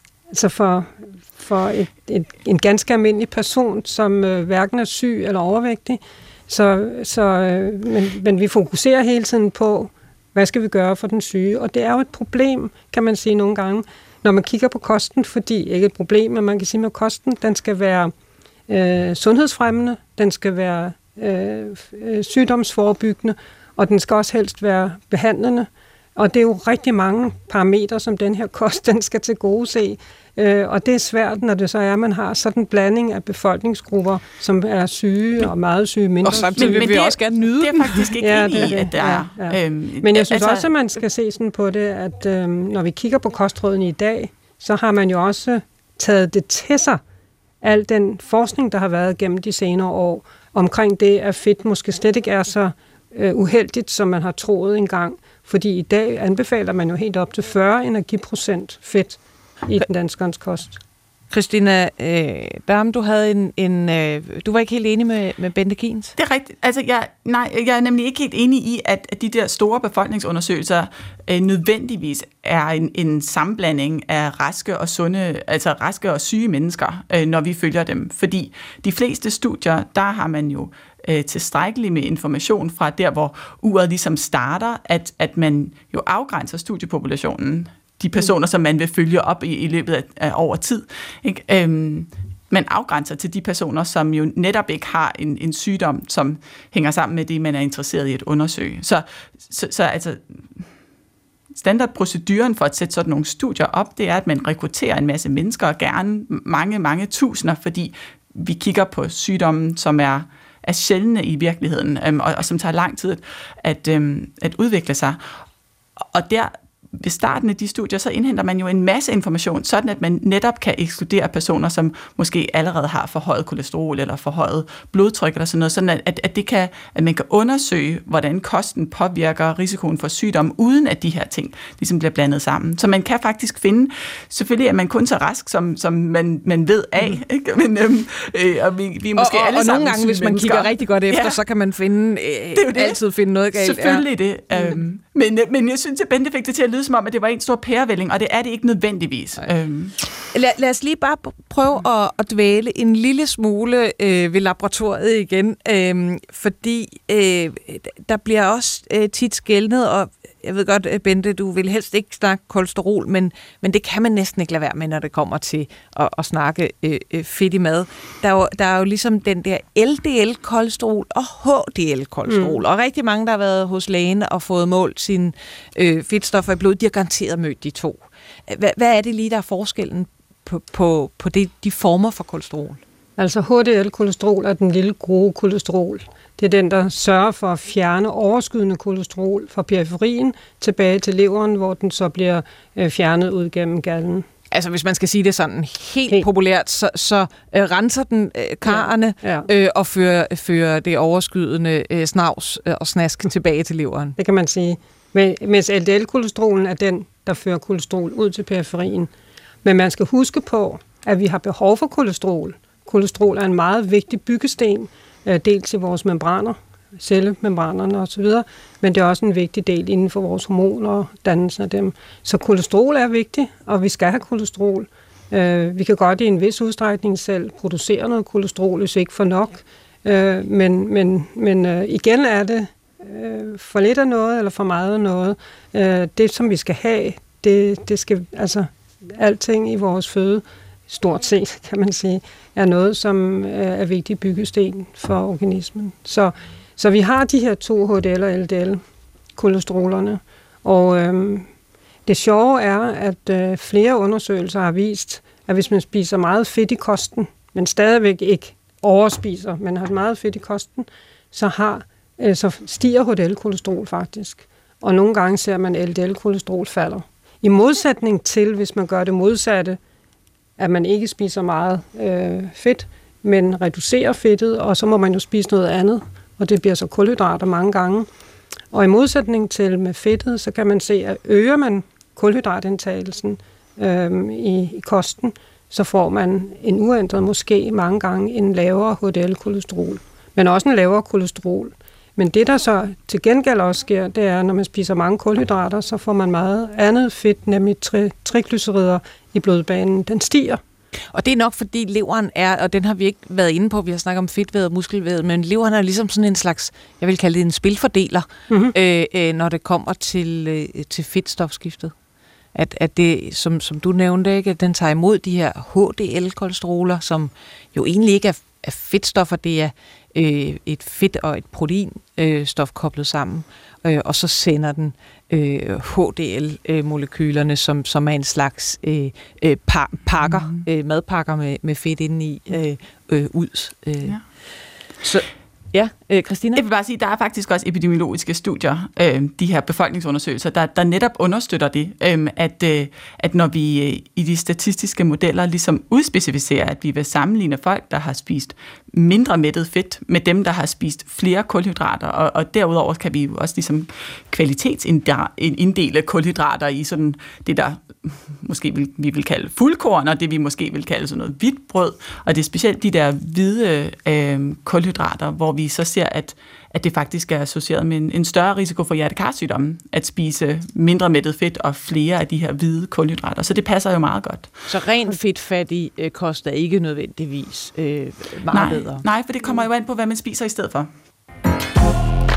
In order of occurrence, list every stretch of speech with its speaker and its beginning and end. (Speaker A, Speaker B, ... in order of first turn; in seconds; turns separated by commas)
Speaker A: 0.3-18.1, Speaker A: 18.7-36.9, Speaker B: 36.2-38.6, Speaker C: 36.5-40.7, Speaker A: 38.2-47.0, Speaker A: 47.6-60.8, Speaker B: 61.3-66.1, Speaker C: 66.2-100.7, Speaker C: 101.5-115.3, Speaker C: 116.0-141.4, Speaker B: 139.2-144.0, Speaker C: 142.5-143.0, Speaker C: 143.5-149.9, Speaker B: 150.3-182.8, Speaker A: 172.3-172.6, Speaker A: 183.2-194.2, Speaker B: 194.5-204.2, Speaker A: 198.6-199.5, Speaker A: 204.2-209.1, Speaker A: 209.6-248.8, Speaker A: 249.3-251.5, Speaker A: 252.1-269.8, Speaker A: 270.6-278.1, Speaker A: 278.7-300.6, Speaker B: 301.1-311.9, Speaker B: 312.5-334.2, Speaker B: 335.0-336.6, Speaker C: 336.5-374.5, Speaker B: 374.7-379.0, Speaker C: 378.5-380.9